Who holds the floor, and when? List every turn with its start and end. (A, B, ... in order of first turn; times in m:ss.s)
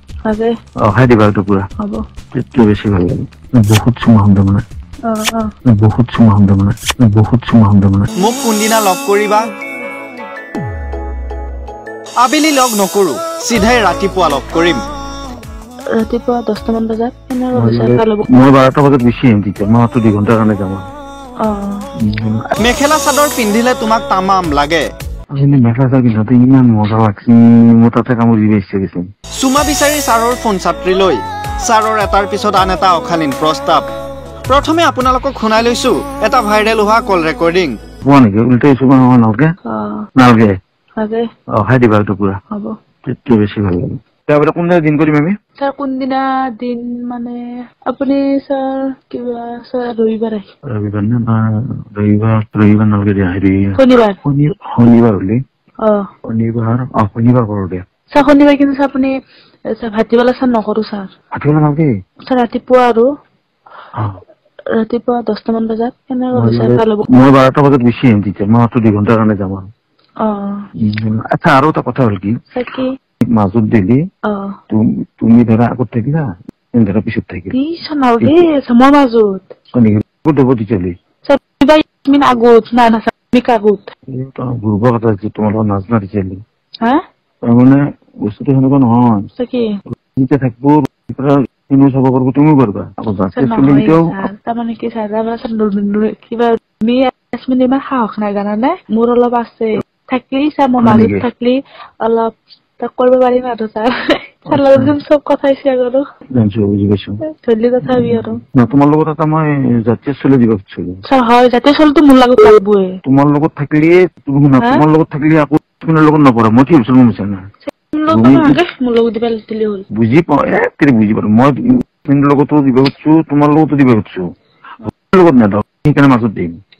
0:00.2-0:00.5 A
0:00.8-0:01.7 B
0:02.3-0:04.6 B
0:05.1-0:05.5 A
0:05.7-0:08.1 B
0:08.2-0:09.4 C
0:12.2-0:14.8 C
0:15.9-0:18.3 A
0:17.6-0:20.9 B
0:21.4-0:21.9 A
0:22.0-0:22.5 B
0:22.6-0:24.9 C
0:25.4-0:29.1 B
0:29.4-0:33.9 C
0:34.5-0:37.7 C
0:38.0-0:39.5 B
0:39.7-0:40.1 A
0:40.2-0:40.5 B
0:41.0-0:41.3 A
0:41.6-0:42.4 B
0:43.0-0:45.3 B
0:45.6-0:50.4 A
0:50.7-0:55.4 B
0:53.8-0:54.2 A
0:56.3-0:57.8 B
0:58.1-0:59.1 A
0:59.8-1:01.1 A
1:01.3-1:01.9 B
1:02.3-1:03.1 A
1:04.8-1:07.1 A
1:06.4-1:09.7 B
1:10.2-1:10.6 A
1:10.9-1:12.3 B
1:12.5-1:12.9 A
1:13.3-1:14.0 B
1:14.3-1:14.6 A
1:14.7-1:17.5 B
1:17.5-1:19.4 A
1:19.8-1:20.9 B
1:21.2-1:23.8 A
1:24.1-1:26.4 B
1:27.5-1:29.2 B
1:29.4-1:29.7 A
1:30.1-1:34.2 B
1:33.4-1:46.0 A
1:40.8-1:41.2 B
1:44.5-1:45.0 B
1:46.4-1:47.2 B
1:47.3-1:48.4 A
1:47.9-1:51.0 B
1:51.1-1:53.0 A
1:53.0-1:57.4 B
1:57.7-1:59.8 A
1:58.1-1:58.6 B
2:00.0-2:04.2 B
2:04.9-2:06.6 B